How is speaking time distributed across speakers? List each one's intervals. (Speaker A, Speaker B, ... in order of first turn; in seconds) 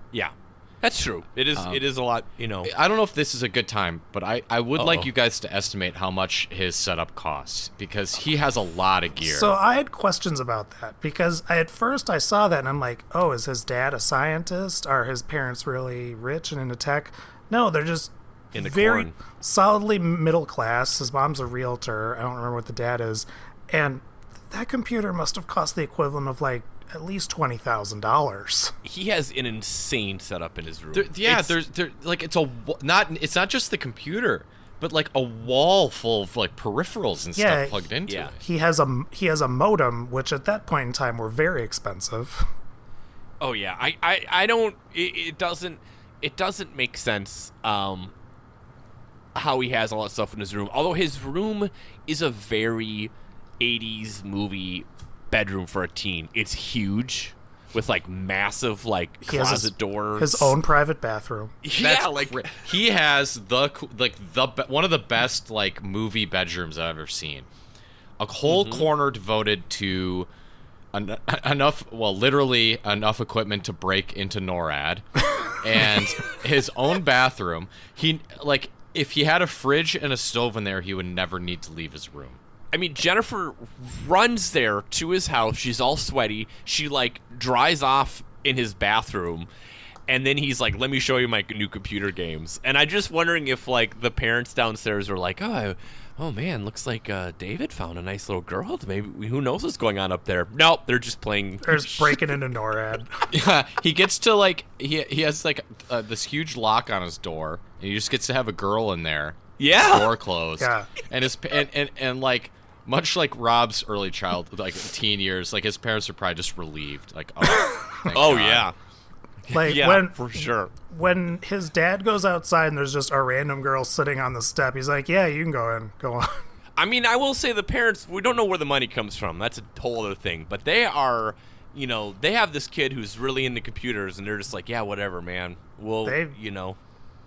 Speaker A: 0.1-2.7, 4.7-5.1, 18.5-19.1, 28.8-31.5, 38.1-38.3, 43.4-48.1, 49.3-60.5, 61.6-62.7, 68.5-68.9, 82.7-89.5, 90.1-102.3, 109.6-110.1, 118.1-118.8, 119.5-120.7, 126.8-136.8
Speaker B: 1.5-1.8, 2.6-9.5, 30.9-38.4, 61.8-67.5, 68.2-70.3, 70.9-82.4, 103.3-118.7
Speaker C: 9.2-28.7, 37.4-42.5, 59.2-61.6, 101.6-103.3, 110.6-110.9, 117.6-118.0, 119.5-126.5, 136.0-136.3